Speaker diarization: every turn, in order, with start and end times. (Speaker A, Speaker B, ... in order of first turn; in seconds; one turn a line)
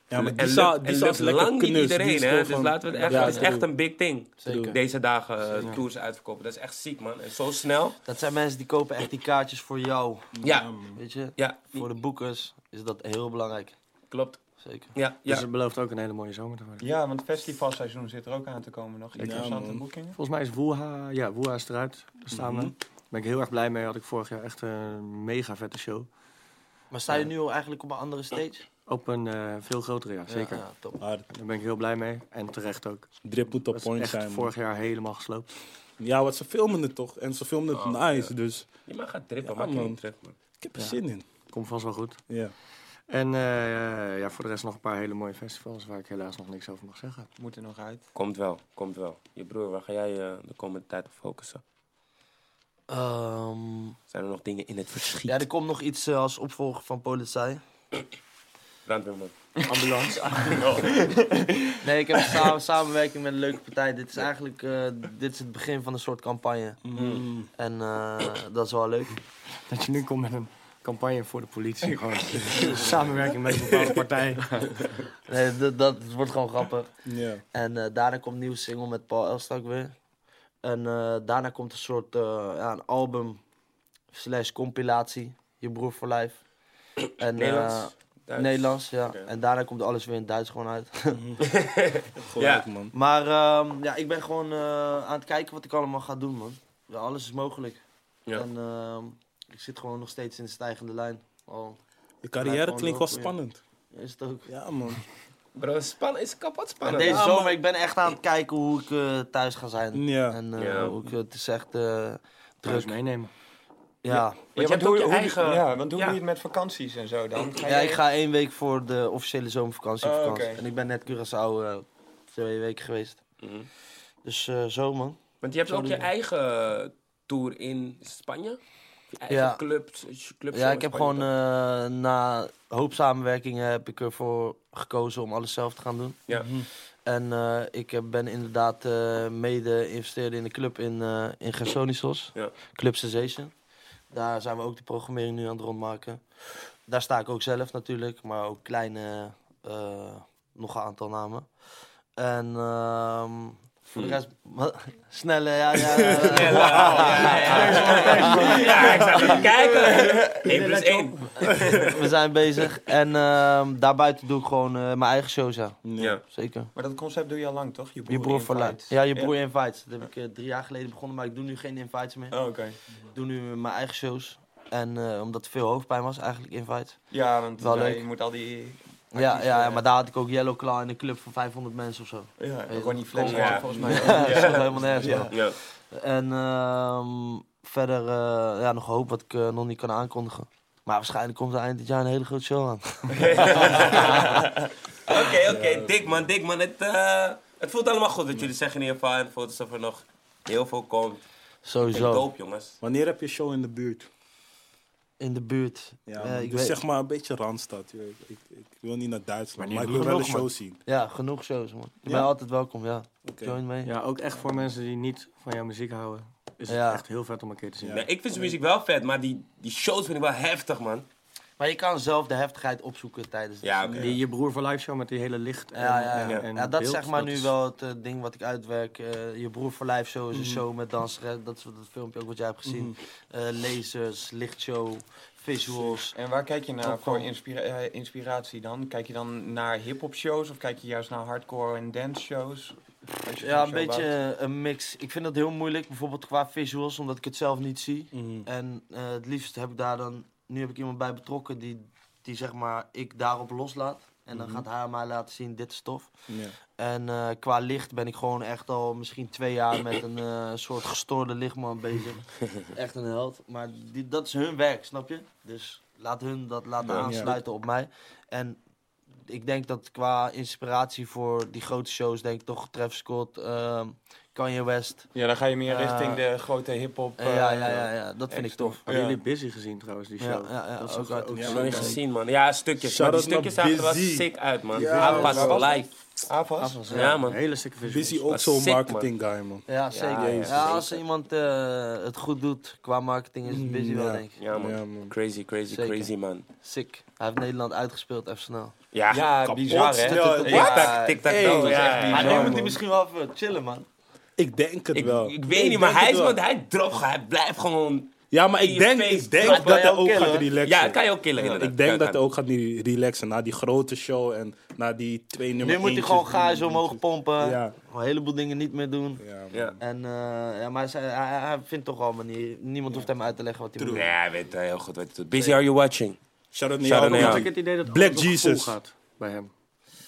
Speaker A: 0.1-3.7
Speaker B: 0.1-8.0
Speaker C: 2.9-3.6
Speaker C: 4.4-4.8
Speaker A: 4.5-4.8
Speaker D: 5.5-5.8
Speaker C: 8.1-13.8
Speaker A: 10.4-11.0
Speaker B: 10.4-10.7
Speaker B: 11.4-11.9
Speaker B: 14.1-14.4
Speaker C: 14.6-14.9
Speaker B: 14.9-15.4
Speaker D: 15.2-16.9
Speaker E: 16.8-20.2
Speaker D: 19.2-19.6
Speaker A: 19.2-19.9
Speaker D: 20.1-26.1
Speaker A: 22.3-22.7
Speaker C: 26.9-28.7
Speaker D: 28.9-30.7
Speaker C: 30.3-31.0
Speaker A: 31.0-31.3
Speaker D: 31.3-35.5
Speaker A: 33.2-34.5
Speaker A: 36.0-38.8
Speaker B: 37.7-40.4
Speaker A: 39.4-40.0
Speaker A: 40.6-41.2
Speaker D: 40.8-42.2
Speaker D: 43.1-47.3
Speaker E: 47.4-48.1
Speaker B: 48.1-51.6
Speaker C: 52.9-54.0
Speaker B: 54.1-55.4
Speaker C: 55.3-57.6
Speaker B: 58.9-59.7
Speaker D: 59.7-60.6
Speaker E: 60.4-61.9
Speaker C: 61.8-66.8
Speaker A: 66.9-67.5
Speaker B: 67.0-67.2
Speaker C: 67.4-69.2
Speaker D: 69.6-74.8
Speaker E: 71.9-72.8
Speaker C: 75.3-77.0
Speaker A: 77.1-77.4
Speaker C: 77.5-80.0
Speaker C: 80.6-83.4
Speaker C: 84.1-86.4
Speaker C: 87.2-91.2
Speaker B: 87.4-88.7
Speaker A: 91.1-91.4
Speaker B: 91.4-92.7
Speaker A: 92.2-92.9
Speaker C: 92.9-97.8
Speaker C: 98.3-101.8
Speaker A: 102.2-103.6
Speaker C: 102.4-103.4
Speaker C: 103.9-104.5
Speaker A: 104.5-105.0
Speaker B: 105.6-107.5
Speaker C: 106.8-113.0
Speaker A: 109.9-111.1
Speaker B: 110.6-111.0
Speaker D: 112.6-113.3
Speaker C: 114.0-114.4
Speaker E: 114.1-118.0
Speaker B: 114.5-116.2
Speaker C: 117.6-123.2
Speaker E: 120.0-120.6
Speaker B: 123.4-123.7
Speaker C: 124.2-126.1
Speaker B: 125.4-128.6
Speaker B: 129.1-131.3
Speaker C: 129.3-129.6
Speaker C: 130.5-136.2
Speaker A: 136.3-136.7
Speaker C: 137.1-143.5
Speaker C: 144.1-146.2
Speaker C: 146.9-151.5
Speaker C: 152.2-159.0
Speaker B: 156.2-161.9
Speaker E: 156.5-161.3
Speaker D: 157.5-159.0
Speaker C: 161.6-166.7
Speaker A: 165.8-166.2
Speaker E: 166.8-169.3
Speaker C: 168.1-178.1
Speaker E: 172.3-172.8
Speaker E: 177.1-179.8
Speaker C: 179.1-194.0
Speaker E: 182.4-185.3
Speaker B: 183.2-184.7
Speaker A: 183.7-184.3
Speaker A: 185.0-185.3
Speaker B: 185.3-185.6
Speaker B: 193.2-194.4
Speaker E: 193.2-194.5
Speaker B: 195.1-201.2
Speaker A: 195.5-195.9
Speaker C: 201.6-202.3
Speaker B: 201.9-202.8
Speaker A: 202.8-204.1
Speaker C: 205.2-206.8
Speaker A: 206.1-210.8
Speaker D: 209.6-210.5
Speaker C: 210.2-213.9
Speaker A: 213.2-213.6
Speaker D: 213.8-218.1
Speaker C: 216.7-217.0
Speaker A: 217.8-218.1
Speaker B: 217.9-221.1
Speaker C: 221.6-224.0
Speaker B: 223.6-224.2
Speaker A: 223.9-224.2
Speaker D: 224.0-227.5
Speaker C: 225.8-236.2
Speaker A: 230.3-230.6
Speaker A: 232.7-233.0
Speaker E: 235.6-244.1
Speaker C: 236.8-237.3
Speaker C: 243.4-256.1
Speaker A: 248.1-248.5
Speaker A: 254.3-254.7
Speaker A: 256.3-256.6
Speaker C: 256.8-268.6
Speaker B: 266.9-267.3
Speaker A: 266.9-267.4
Speaker C: 269.2-275.1
Speaker E: 275.1-279.2
Speaker C: 275.6-276.2
Speaker C: 277.2-278.8
Speaker D: 278.9-282.0
Speaker C: 280.2-281.9
Speaker B: 281.4-285.9
Speaker A: 282.8-285.6
Speaker E: 284.8-286.8
Speaker C: 285.0-285.6
Speaker D: 286.6-288.4
Speaker C: 286.9-287.2
Speaker B: 286.9-287.4
Speaker A: 287.9-290.8
Speaker B: 288.3-289.1
Speaker C: 289.7-294.4
Speaker B: 289.9-291.0
Speaker A: 293.5-295.1
Speaker B: 294.4-296.4
Speaker C: 295.7-298.7
Speaker B: 298.9-302.6
Speaker E: 299.1-302.8
Speaker A: 299.7-301.1
Speaker C: 300.1-303.9
Speaker A: 304.4-306.4
Speaker B: 304.9-312.2
Speaker A: 308.3-317.8
Speaker C: 309.4-310.5
Speaker C: 315.6-319.2
Speaker A: 319.2-319.8
Speaker B: 319.5-319.8
Speaker C: 319.8-324.1
Speaker A: 323.8-324.1
Speaker B: 323.9-326.2
Speaker A: 326.5-328.8
Speaker B: 326.8-327.5
Speaker D: 327.0-329.5